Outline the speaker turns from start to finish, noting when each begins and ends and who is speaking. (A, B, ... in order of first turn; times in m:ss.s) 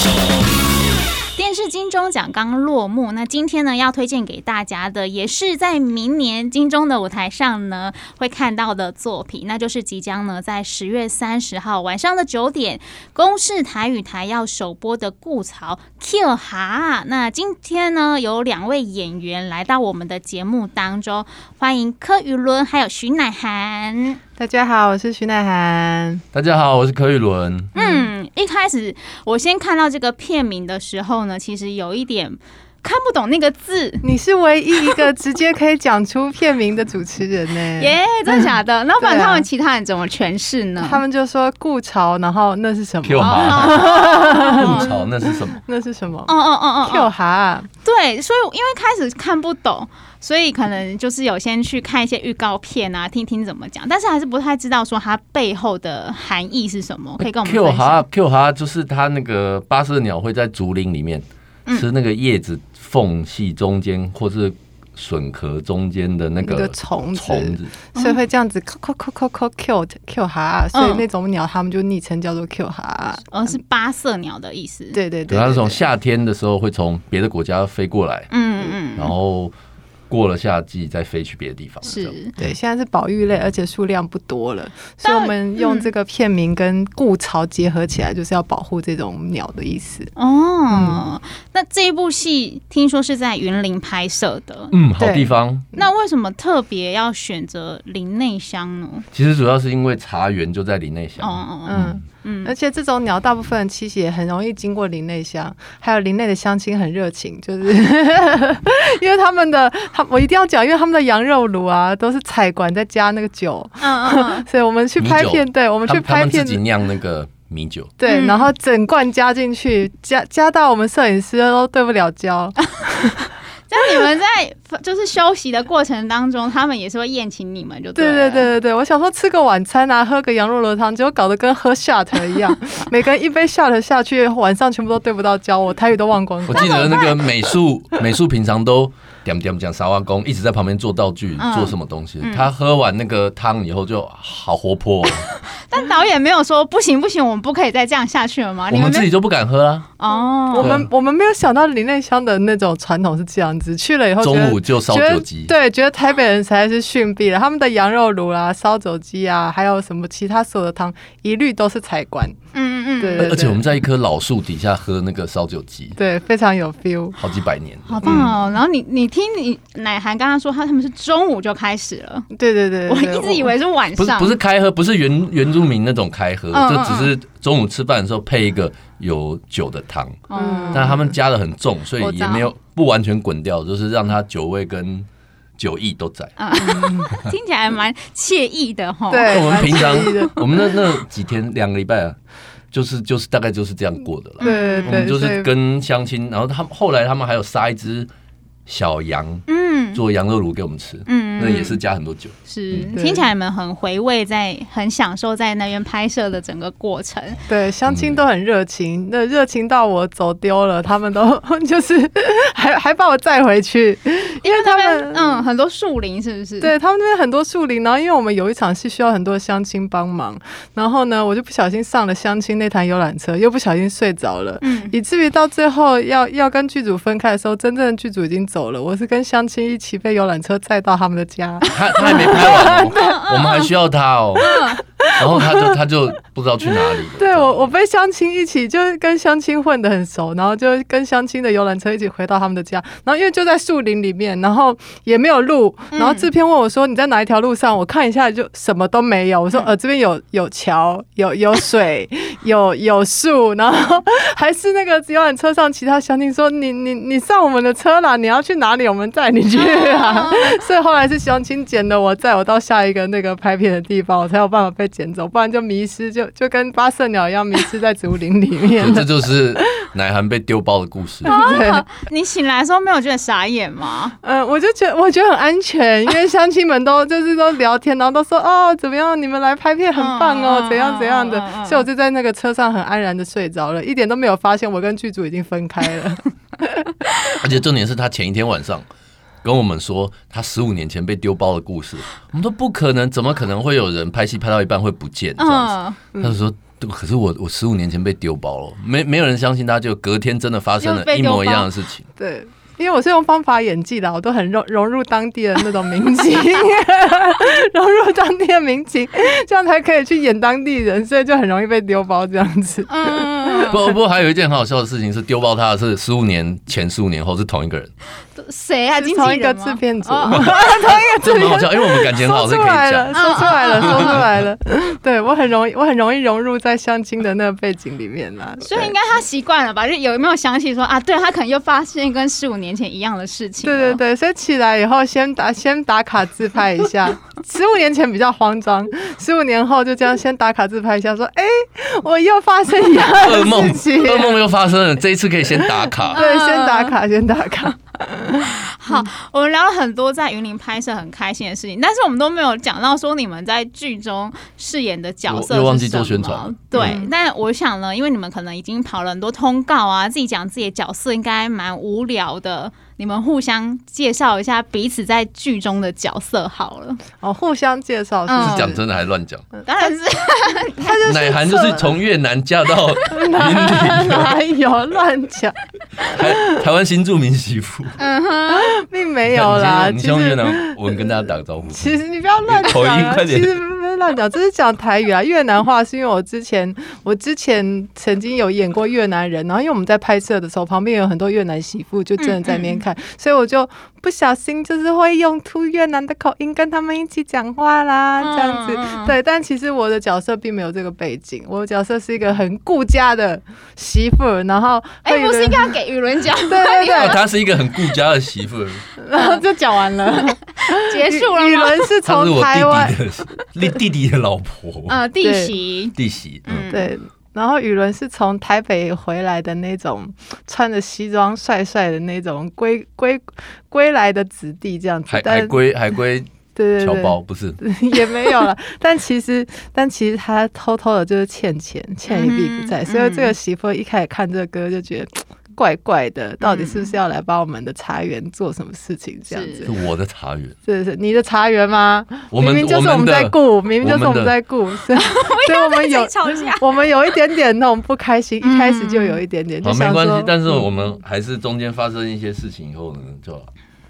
0:01.4-0:24.2 A
0:24.4-0:26.2 B
0:26.3-0:27.7 C
0:27.8-0:34.0 A
0:27.8-0:28.1 B
0:34.0-0:38.5 B
0:37.8-0:41.0 A
0:39.0-0:39.5 B
0:40.8-0:46.3 B
0:43.0-0:44.0 C
0:43.2-0:44.9 A
0:44.6-0:45.6 C
0:46.2-0:47.1 A
0:46.9-0:47.7 B
0:47.8-0:58.0 A
0:57.2-1:07.8 C
1:06.4-1:13.6 B
1:10.7-1:11.0 A
1:13.3-1:15.0 A
1:14.9-1:15.9 B
1:15.3-1:18.3 C
1:18.3-1:19.2 A
1:19.0-1:19.5 C
1:20.1-1:22.5 C
1:21.8-1:22.3 A
1:22.4-1:30.1 B
1:25.0-1:25.9 A
1:30.2-1:34.8 A
1:30.7-1:31.0 B
1:34.7-1:35.7 C
1:35.0-1:35.9 B
1:35.8-1:39.1 A
1:39.1-1:42.0 C
1:41.2-1:42.5 A
1:41.6-1:56.6 B
1:53.8-1:54.4 A
1:55.0-1:57.9 C
1:58.0-2:03.3 B
1:58.0-1:58.5 A
2:03.7-2:08.5 A
2:08.0-2:16.9 B
2:16.4-2:25.3 C
2:16.5-2:17.1 A
2:21.4-2:22.5 A
2:25.0-2:29.1 A
2:28.7-2:29.9 C
2:30.0-2:30.8 A
2:30.1-2:42.4 B
2:30.5-2:30.9 C
2:34.2-2:35.5 C
2:42.5-2:43.3 A
2:43.0-2:43.6 B
2:43.2-2:46.0 C
2:46.0-2:47.2 B
2:47.2-2:48.4 C
2:47.9-2:52.3 A
2:52.3-2:53.5 B
2:52.9-2:54.4 A
2:54.0-3:05.1 C
2:56.5-2:57.1 A
3:00.3-3:01.0 A
3:00.3-3:01.2 B
3:02.0-3:02.5 A
3:05.6-3:06.4 C
3:06.4-3:10.3 A
3:06.6-3:07.1 B
3:09.1-3:10.4 B
3:09.3-3:12.2 C
3:12.7-3:18.1 C
3:14.4-3:15.0 A
3:14.4-3:15.5 B
3:18.7-3:22.9 C
3:19.5-3:20.0 A
3:21.0-3:21.8 A
3:22.4-3:27.4 A
3:22.9-3:23.3 B
3:27.5-3:35.5 B
3:27.9-3:28.2 C
3:34.4-3:36.7 A
3:36.6-3:53.2 B
3:44.6-3:44.9 A
3:51.7-3:54.6 C
3:52.1-3:53.7 A
3:54.4-3:54.8 A
3:54.4-3:55.7 B
3:55.2-3:57.7 C
3:56.7-4:29.7 B
4:05.9-4:06.3 A
4:19.5-4:20.6 A
4:28.8-4:31.3 C
4:31.2-4:31.8 B
4:31.2-4:34.2 A
4:34.2-4:47.1 B
4:39.9-4:41.9 A
4:47.3-4:48.9 C
4:49.4-5:02.1 C
4:55.4-4:56.0 A
5:00.8-5:01.7 A
5:02.2-5:13.7 B
5:12.9-5:13.8 A
5:13.7-5:17.9 C
5:18.4-5:20.6 A
5:18.9-5:29.0 B
5:20.4-5:24.1 C
5:23.1-5:24.3 A
5:28.6-5:34.0 A
5:33.6-5:44.5 B
5:43.2-5:46.2 C
5:45.6-5:49.1 B
5:46.1-5:46.9 A
5:48.4-6:07.0 A
5:55.3-5:57.0 C
5:56.8-5:57.1 B
6:07.2-6:08.8 B
6:08.3-6:08.8 A
6:08.4-6:09.5 C
6:09.6-6:11.1 A
6:10.8-6:12.0 B
6:11.0-6:14.4 C
6:13.1-6:16.6 B
6:16.0-6:18.0 C
6:18.0-6:18.8 A
6:18.5-6:20.8 B
6:19.3-6:23.6 C
6:21.7-6:45.8 B
6:32.2-6:32.8 A
6:38.2-6:39.1 A
6:45.0-6:47.2 A
6:46.5-6:47.2 B
6:46.9-6:48.9 C
6:49.0-6:53.4 B
6:50.2-6:51.9 A
6:52.0-6:55.0 C
6:54.9-6:56.9 A
6:55.2-6:55.5 B
6:55.9-6:56.7 C
6:56.7-7:05.6 B
7:05.1-7:07.6 C
7:06.5-7:19.7 B
7:12.1-7:13.3 A
7:16.4-7:16.9 A
7:19.3-7:19.7 A
7:19.7-7:20.6 C
7:20.6-7:30.6 B
7:22.3-7:24.4 C
7:24.9-7:26.6 A
7:28.4-7:29.2 A
7:29.6-7:33.5 C